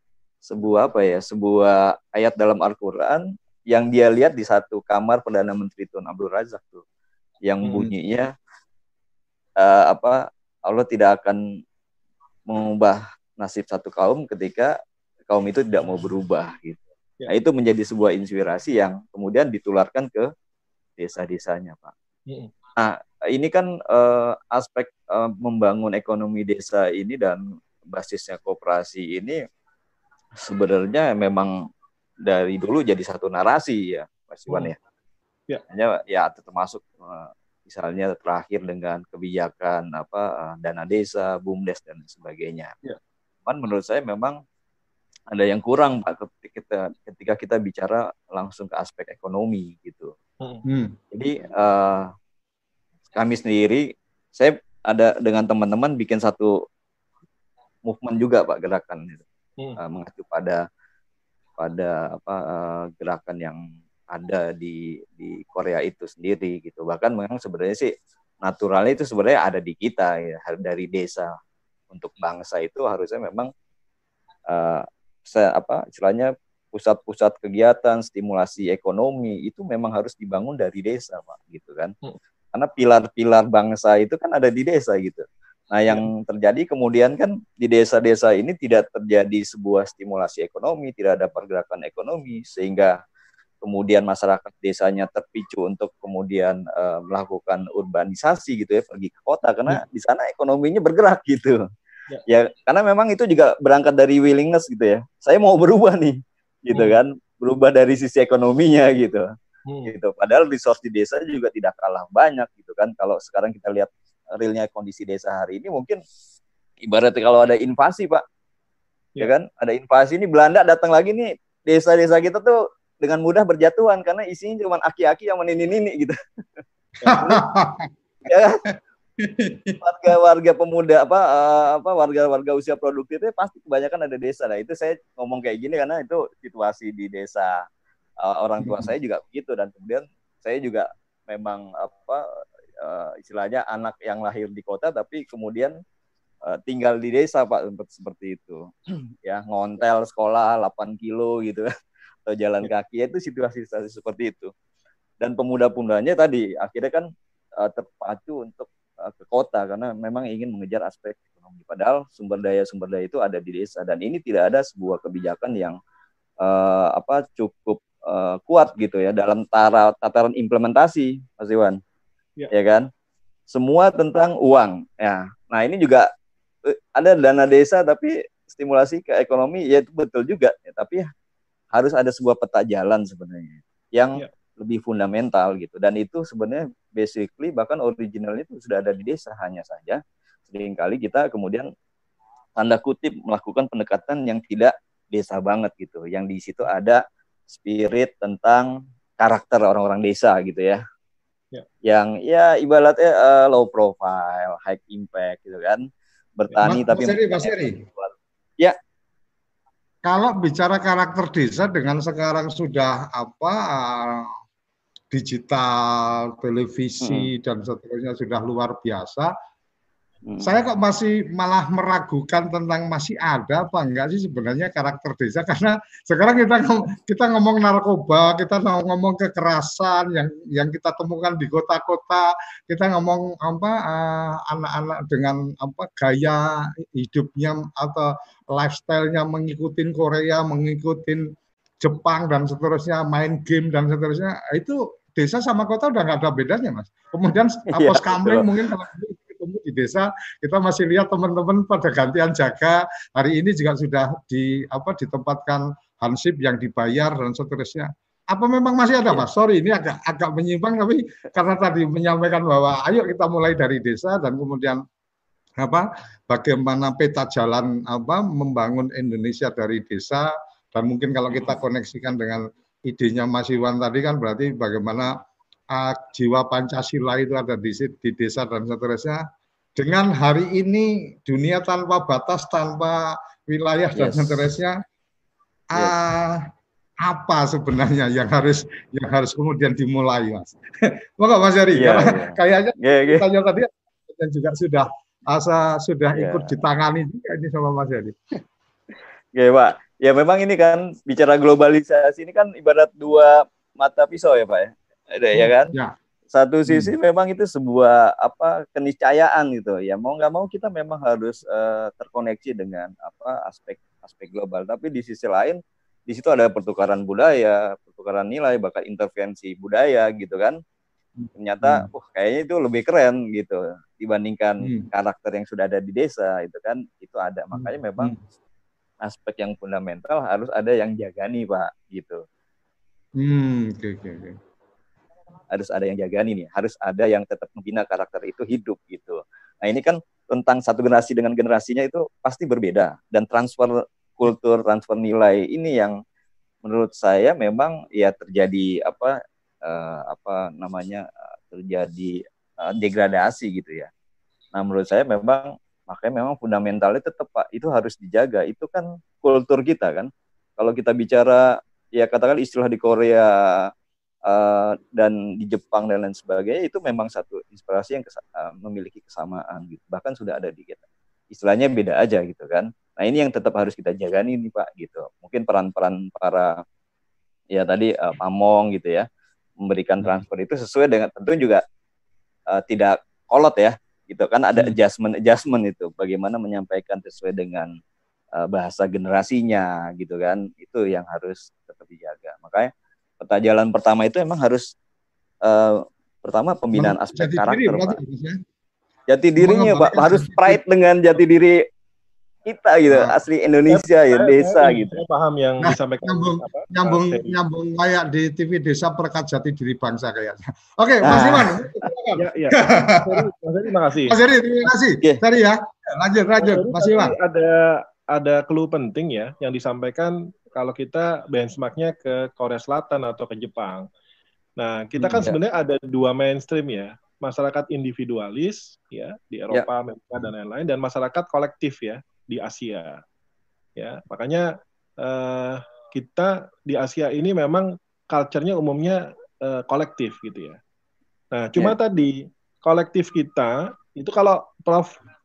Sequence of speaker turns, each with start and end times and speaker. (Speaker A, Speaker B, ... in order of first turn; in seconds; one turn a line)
Speaker A: 0.4-6.8
Speaker A: 7.4-8.3
Speaker B: 7.6-7.9
Speaker A: 9.6-11.4
Speaker A: 12.5-14.7
Speaker A: 15.3-20.3
Speaker A: 21.0-21.9
Speaker A: 22.8-27.4
Speaker A: 27.9-29.4
Speaker A: 30.4-31.6
Speaker A: 32.2-34.8
Speaker A: 35.7-42.7
Speaker A: 43.5-44.4
Speaker A: 45.3-50.1
Speaker C: 50.7-51.0
Speaker A: 51.1-52.1
Speaker A: 53.1-56.5
Speaker A: 57.9-59.2
Speaker A: 59.8-60.6
Speaker A: 61.6-63.6
Speaker A: 64.1-67.9
Speaker A: 68.4-71.3
Speaker A: 71.9-73.5
Speaker A: 74.5-81.9
Speaker A: 82.5-93.0
Speaker A: 93.6-101.6
Speaker A: 102.3-109.3
Speaker B: 109.7-109.9
Speaker A: 109.9-116.0
Speaker A: 116.8-118.2
Speaker A: 119.2-126.2
Speaker B: 127.0-127.4
Speaker C: 127.1-127.9
Speaker A: 128.3-128.6
Speaker C: 129.2-129.8
Speaker A: 129.8-137.7
Speaker A: 138.2-142.2
Speaker C: 138.6-138.9
Speaker A: 142.8-145.7
Speaker A: 146.5-148.7
Speaker A: 149.2-151.7
Speaker A: 152.3-154.5
Speaker A: 155.2-157.1
Speaker A: 157.6-165.8
Speaker A: 166.4-171.8
Speaker A: 172.5-172.9
Speaker A: 173.5-176.1
Speaker A: 176.7-181.1
Speaker A: 181.7-191.7
Speaker A: 192.6-200.8
Speaker A: 201.8-208.8
Speaker C: 206.6-207.8
Speaker C: 210.1-214.3
Speaker C: 215.1-219.3
Speaker A: 217.0-217.3
Speaker A: 220.3-220.5
Speaker C: 220.4-241.2
Speaker C: 241.8-264.8
Speaker A: 247.7-248.5
Speaker C: 265.6-275.1
Speaker C: 275.7-279.2
Speaker C: 279.8-284.8
Speaker A: 284.0-284.4
Speaker C: 285.7-286.4
Speaker C: 287.1-298.4
Speaker A: 291.8-293.2
Speaker A: 296.2-296.5
Speaker A: 299.4-305.7
Speaker C: 305.4-305.9
Speaker A: 306.3-320.6
Speaker C: 306.7-306.9
Speaker C: 321.2-321.9
Speaker A: 321.4-328.1
Speaker C: 327.5-328.1
Speaker A: 329.0-332.2
Speaker C: 333.2-334.4
Speaker A: 335.5-346.0
Speaker A: 346.6-353.9
Speaker A: 354.5-363.7
Speaker A: 364.3-376.6
Speaker A: 377.5-379.1
Speaker A: 379.6-381.6
Speaker A: 382.5-387.7
Speaker A: 388.4-394.7
Speaker A: 395.4-398.0
Speaker C: 396.8-398.4
Speaker A: 399.1-401.6
Speaker C: 399.4-400.6
Speaker A: 402.5-405.0
Speaker B: 403.7-407.4
Speaker C: 405.6-413.2
Speaker A: 411.0-411.7
Speaker B: 412.2-414.2
Speaker C: 414.1-417.1
Speaker B: 416.4-423.9
Speaker B: 424.6-433.0
Speaker B: 433.8-440.6
Speaker B: 441.3-445.0